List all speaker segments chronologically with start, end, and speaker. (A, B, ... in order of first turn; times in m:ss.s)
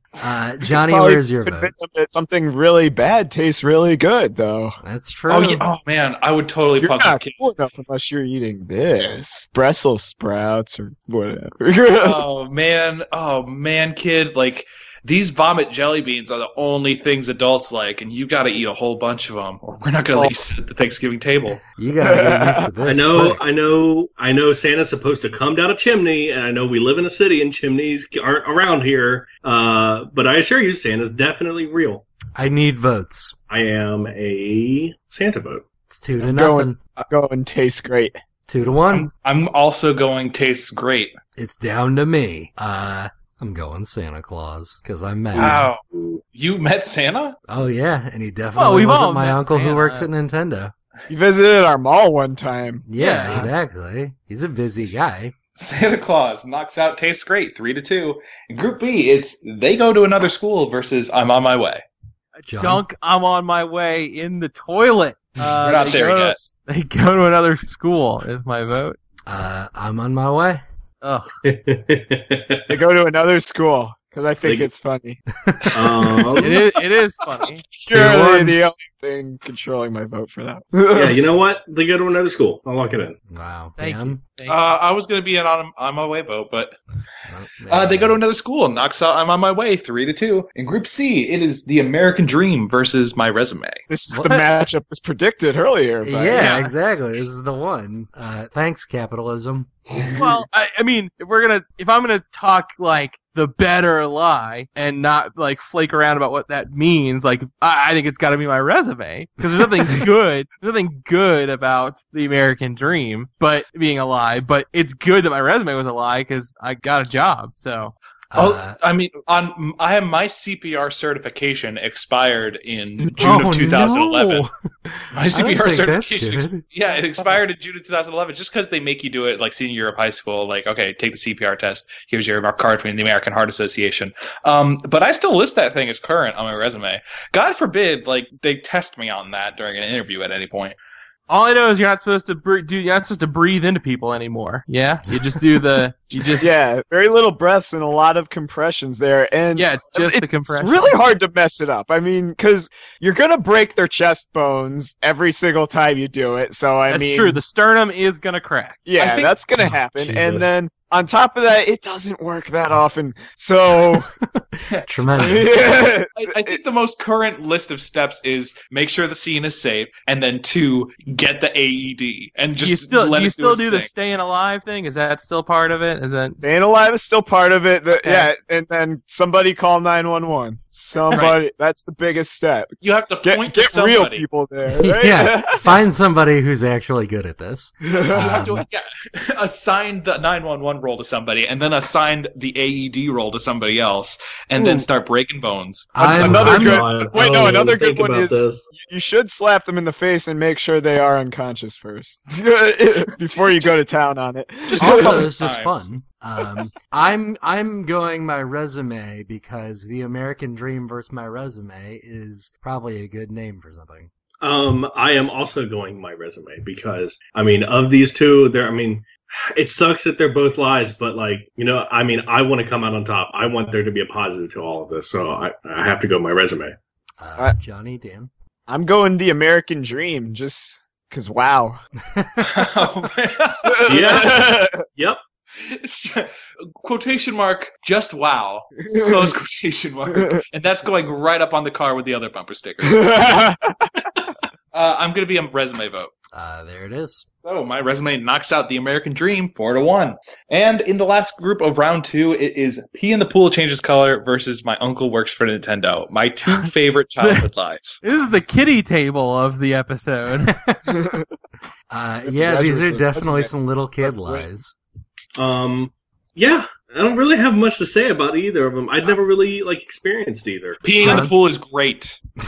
0:00.2-0:01.7 A
0:00.7-0:04.8 B
0:04.8-0:05.6 A
0:05.3-0:07.4 C
0:06.8-0:12.2 B
0:11.9-0:21.6 C
0:21.7-0:23.4 A
0:22.0-0:22.7 B
0:22.8-0:32.0 D
0:32.4-0:33.3 A
0:33.5-0:35.6 D
0:35.9-0:36.8 A
0:36.2-0:38.2 B
0:38.5-0:39.1 A
0:38.9-0:41.2 C
0:41.4-0:45.7 A
0:45.3-0:47.4 C
0:45.4-0:46.2 D
0:47.5-0:50.7 A
0:48.6-0:50.1 E
0:51.1-0:52.8 B
0:52.9-0:55.3 A
0:53.0-0:53.5 E
0:55.5-1:01.8 C
1:02.4-1:09.0 E
1:02.5-1:02.8 A
1:05.6-1:06.4 C
1:05.7-1:06.4 B
1:09.3-1:10.6 A
1:11.0-1:11.3 E
1:11.4-1:12.8 D
1:12.7-1:15.2 B
1:14.4-1:14.7 D
1:15.4-1:15.9 A
1:15.7-1:16.6 D
1:15.8-1:16.4 B
1:16.4-1:17.6 E
1:17.8-1:21.2 B
1:17.9-1:18.6 A
1:20.9-1:23.2 D
1:23.3-1:24.2 A
1:23.8-1:24.6 E
1:24.5-1:26.8 C
1:27.3-1:28.2 A
1:27.7-1:33.8 C
1:33.9-1:36.6 B
1:34.1-1:34.4 A
1:36.0-1:40.0 A
1:36.3-1:36.7 E
1:40.1-1:57.9 E
1:58.3-1:58.8 A
1:58.3-2:04.5 C
2:03.0-2:03.4 B
2:03.2-2:06.6 A
2:05.1-2:20.8 C
2:21.3-2:26.6 E
2:26.4-2:37.4 B
2:29.5-2:31.0 E
2:36.9-2:38.8 E
2:38.8-2:44.1 B
2:39.0-2:39.4 C
2:39.7-2:40.2 A
2:40.0-2:40.5 C
2:43.9-2:45.8 A
2:45.2-2:46.6 B
2:46.1-2:53.9 C
2:52.6-2:56.4 E
2:56.4-3:05.8 B
2:57.9-2:58.3 E
3:01.1-3:01.4 C
3:02.8-3:04.2 C
3:04.7-3:08.6 A
3:07.9-3:08.6 B
3:08.1-3:16.1 C
3:14.6-3:14.8 D
3:15.9-3:16.9 A
3:16.0-3:25.3 B
3:16.0-3:18.7 D
3:23.3-3:23.8 C
3:24.7-3:25.9 C
3:24.8-3:34.1 A
3:34.4-3:46.8 D
3:47.2-3:48.3 A
3:48.7-3:51.8 B
3:52.1-3:52.7 A
3:52.4-3:54.4 C
3:53.7-3:54.8 B
3:53.8-3:55.2 D
3:55.6-4:03.4 C
4:02.9-4:03.9 B
4:04.7-4:06.1 C
4:06.3-4:07.2 A
4:07.4-4:18.0 C
4:17.2-4:17.5 E
4:18.0-4:20.5 E
4:20.4-4:20.8 A
4:20.9-4:21.2 B
4:21.9-4:24.7 A
4:22.3-4:24.5 B
4:25.4-4:31.1 D
4:30.8-4:32.2 C
4:31.0-4:31.3 A
4:31.0-4:31.3 E